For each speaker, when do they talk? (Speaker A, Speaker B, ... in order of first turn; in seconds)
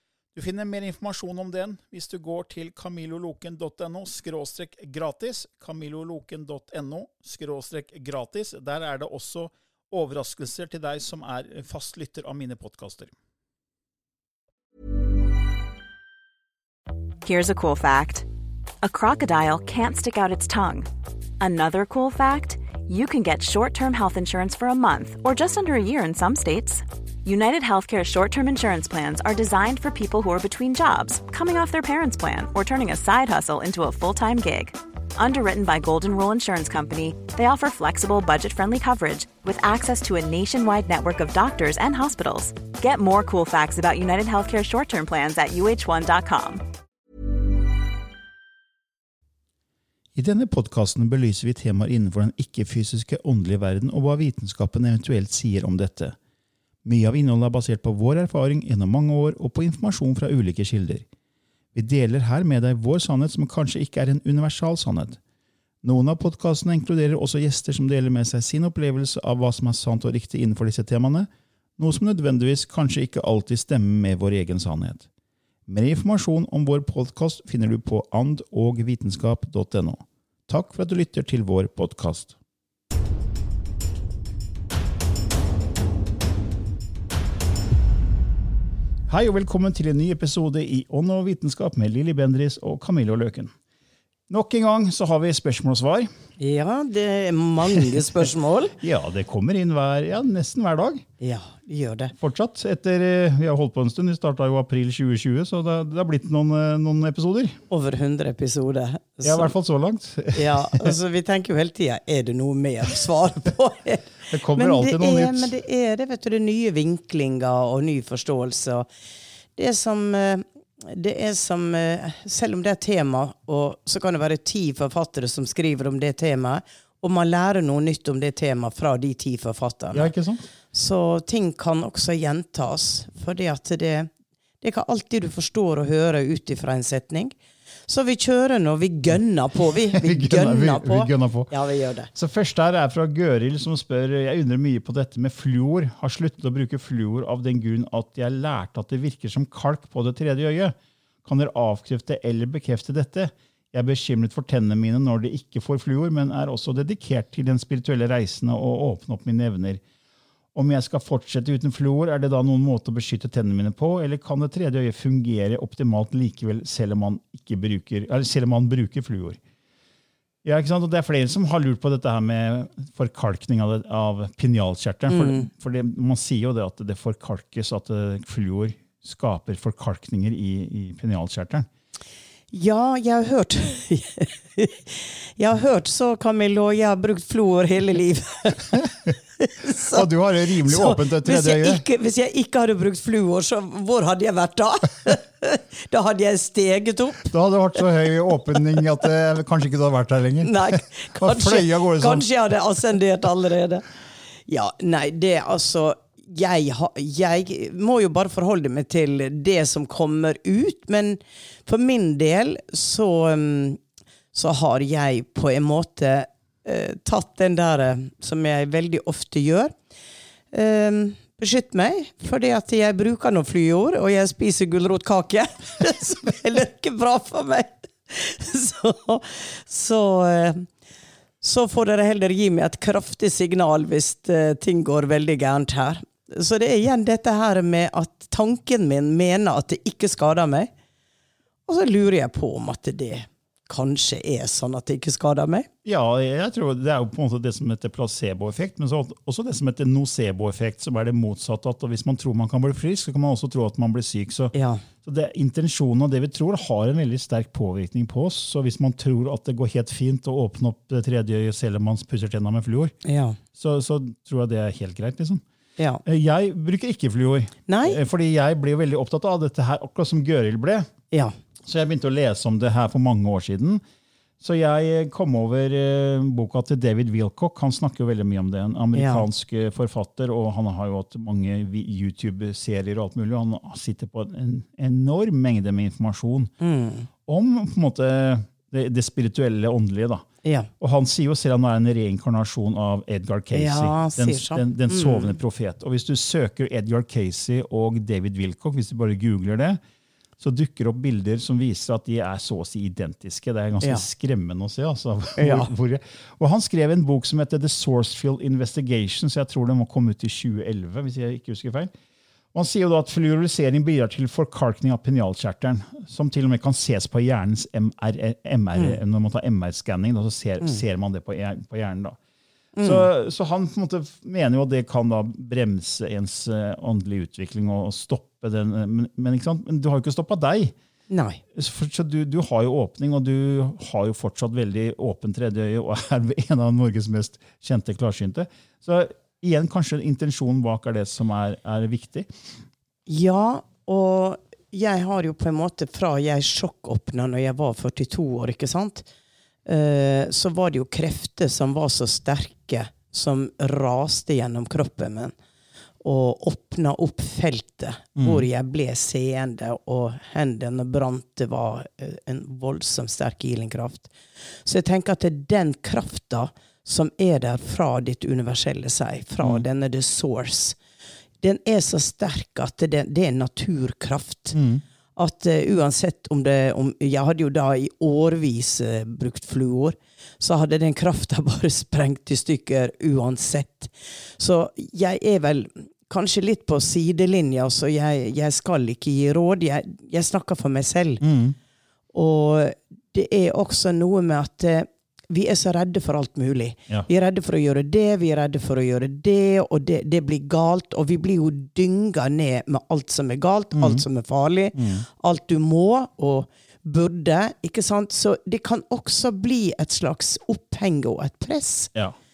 Speaker A: 0.3-13.1, 50.1-56.2, 56.8-61.0, 61.7-65.2, 65.8-75.1, 75.7-82.3, 89.1-93.5, 94.3-96.1, 98.8-101.0, 102.2-107.6, 109.2-110.9, 114.3-115.5, 129.9-130.4, 139.9-141.5, 142.1-159.8, 160.5-169.4, 170.4-181.7, 189.8-191.8, 197.3-202.3, 245.8-262.9, 263.5-265.4, 266.0-270.9, 271.6-273.8, 274.4-286.5, 287.2-290.2, 290.8-299.8, 300.4-311.9, 312.5-322.2, 322.8-330.7, 331.5-342.3, 358.2-358.4, 374.5-374.8, 391.2-391.6, 403.7-404.0, 404.7-405.0
Speaker B: 17.2-18.2, 18.8-20.9, 21.4-46.6
Speaker C: 96.4-98.8, 101.2-102.1, 107.7-109.5, 110.3-118.9, 119.5-130.1, 130.7-137.3, 137.9-142.1, 175.1-175.5, 182.5-188.9, 189.4-197.3, 200.4-203.9, 204.5-213.8, 214.3-219.7, 220.5-230.7, 231.4-240.7, 241.7-245.7, 254.5-254.8, 263.0-263.4, 267.7-268.0, 278.9-279.2, 286.6-287.1, 290.4-290.7, 293.5-295.4, 305.4-305.7, 322.8-323.1, 331.1-331.4, 343.1-349.1, 349.6-355.3, 356.0-370.8, 371.4-374.6, 375.1-391.2, 392.1-411.9